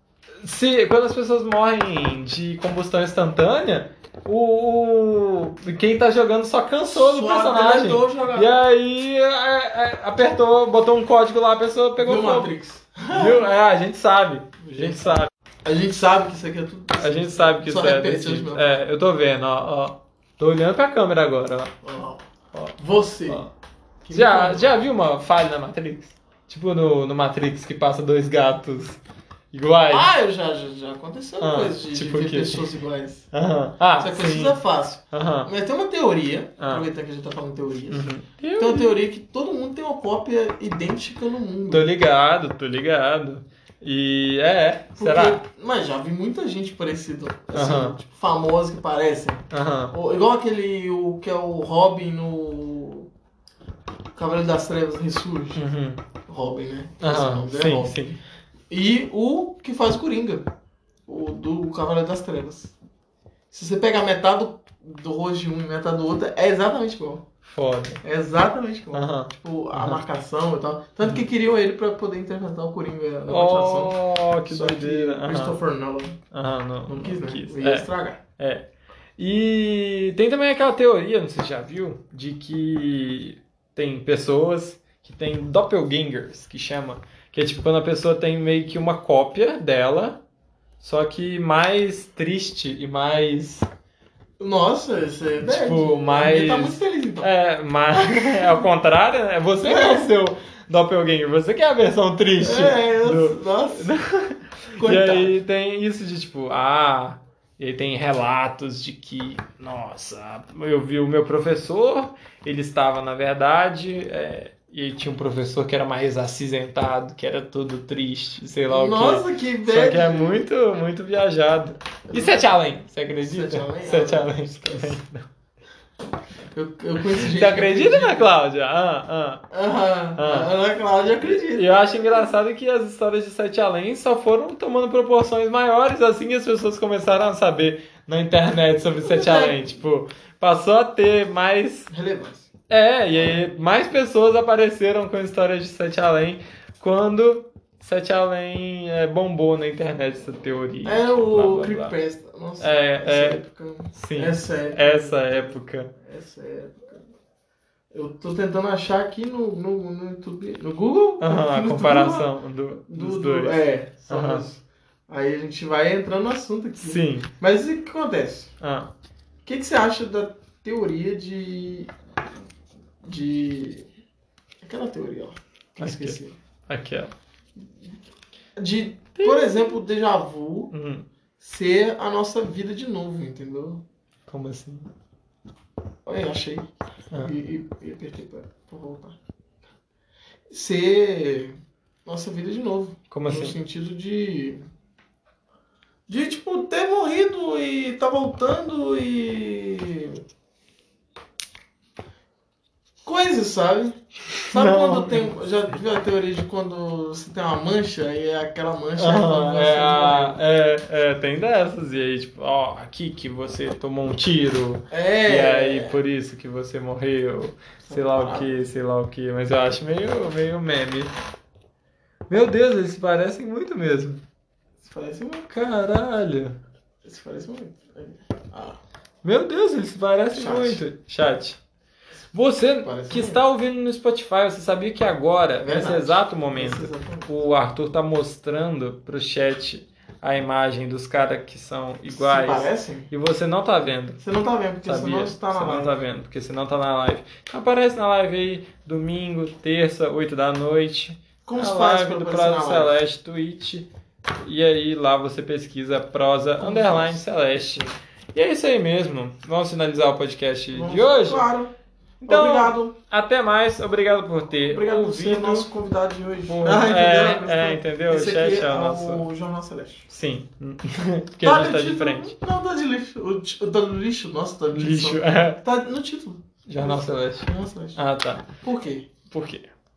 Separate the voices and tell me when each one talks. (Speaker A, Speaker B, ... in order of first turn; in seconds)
Speaker A: 0.4-12.5, 13.1-15.3, 17.0-21.7, 22.5-23.5, 24.1-29.0, 29.5-30.1, 31.4-32.7, 33.3-34.6, 35.1-35.5, 36.6-36.9, 37.9-39.0, 41.7-45.4, 47.5-48.0, 49.5-50.0, 55.5-56.0, 57.0-58.2, 67.5-68.0, 68.9-70.0, 73.3-75.6, 76.3-90.2, 90.8-93.7, 95.4-125.2, 127.0-129.4, 130.2-130.5, 131.2-141.9, 142.7-151.9, 152.6-153.4, 153.9-155.9, 161.2-164.4, 166.8-167.3, 168.6-168.9, 175.8-177.1, 179.2-179.8, 180.7-181.1, 184.3-184.9, 193.1-193.6, 204.4-205.3, 209.0-221.1, 222.3-224.2, 225.5-226.6, 229.2-231.6, 232.3-244.2, 244.8-253.9, 254.4-261.5, 262.2-265.7, 266.5-269.2, 270.1-272.3, 274.7-275.6, 276.7-278.5, 279.3-279.7
Speaker B: 6.8-8.6, 12.0-13.5, 14.6-18.8, 21.8-22.2, 22.8-23.5, 24.1-24.8, 29.9-33.3, 34.0-41.9, 45.0-53.1, 54.1-55.6, 56.3-58.0, 58.7-60.5, 61.1-62.7, 63.5-67.2, 68.0-76.2, 76.9-78.2, 94.4-97.3, 97.9-98.7, 99.6-100.1, 102.4-103.9, 104.8-105.4, 118.7-120.4, 122.1-122.5, 123.1-125.0, 126.5-128.4, 129.5-132.4, 138.9-139.8, 141.9-142.5, 150.8-157.0, 157.9-162.3, 162.9-168.5, 169.4-171.9, 173.0-173.9, 174.6-176.4, 177.6-177.9, 178.6-180.7, 181.4-183.8, 186.1-189.2, 190.5-194.6, 196.1-200.2, 203.0-210.4, 214.9-216.0, 217.8-218.6, 224.8-225.5, 227.0-228.8, 230.3-230.8, 232.8-233.4, 235.6-237.3, 242.1-243.1, 244.2-246.0, 251.4-252.9, 256.6-257.2, 260.7-261.7, 262.3-263.0, 264.7-270.1, 271.4-278.0, 278.6-279.1